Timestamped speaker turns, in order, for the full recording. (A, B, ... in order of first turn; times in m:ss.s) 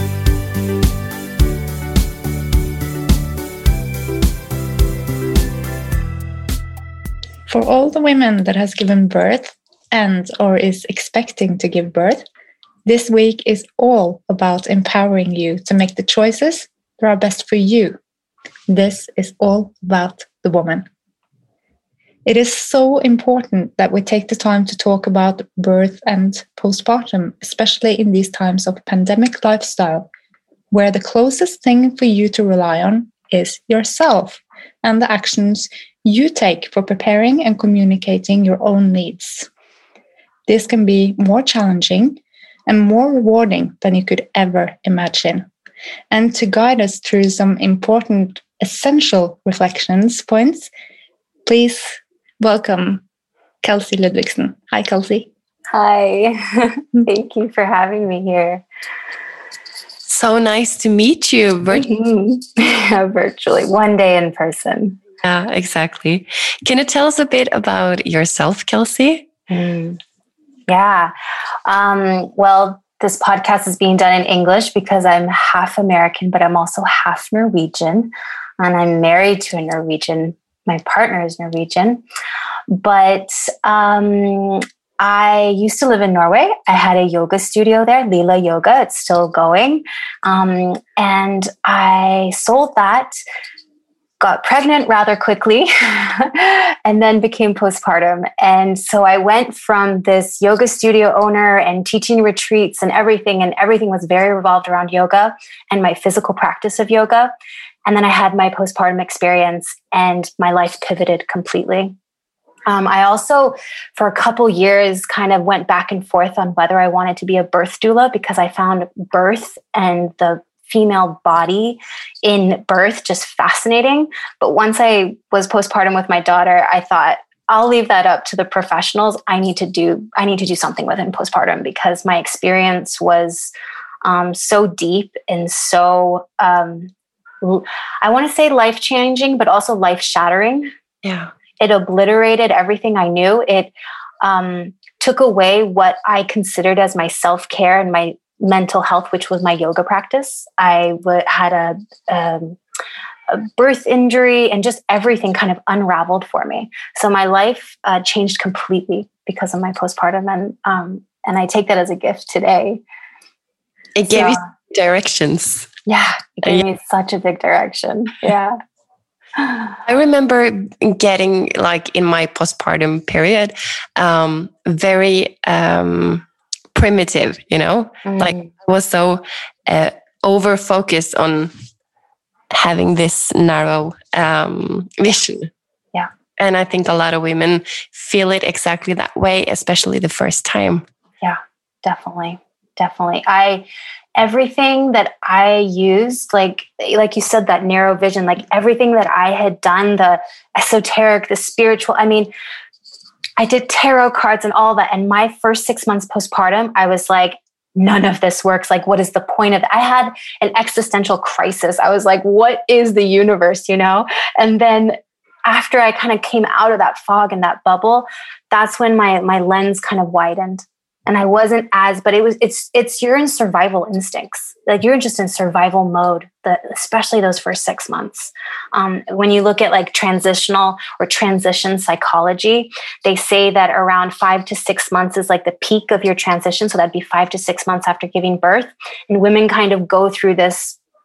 0:07.5-0:12.2 A
0:12.8-0:18.0 A
0:18.7-0:20.8 A
0:22.2-0:30.1 A
0:30.7-0:39.5 A
0:40.5-0:45.5 A
0:46.1-0:50.7 A
0:51.4-0:53.0 A
0:53.6-0:55.3 A
0:55.7-0:58.6 B
1:00.0-1:01.9 C
1:01.7-1:05.0 B
1:05.2-1:09.3 C
1:09.5-1:10.0 B
1:10.7-1:11.1 B
1:11.6-1:22.0 B
1:22.7-1:33.2 B
1:34.2-1:47.3 B
1:47.8-1:51.9 B
1:52.7-2:13.5 B
2:14.0-2:16.9 B
2:17.4-2:20.7 B
2:21.0-2:21.3 C
2:21.6-2:32.6 B
2:33.3-2:42.8 B
2:44.0-2:45.7 C
2:44.1-2:44.4 B
2:45.9-2:48.6 B
2:49.8-3:01.5 C
2:58.0-2:58.4 B
3:02.5-3:05.5 C
3:06.4-3:10.8 C
3:11.2-3:22.3 B
3:23.4-4:00.8 B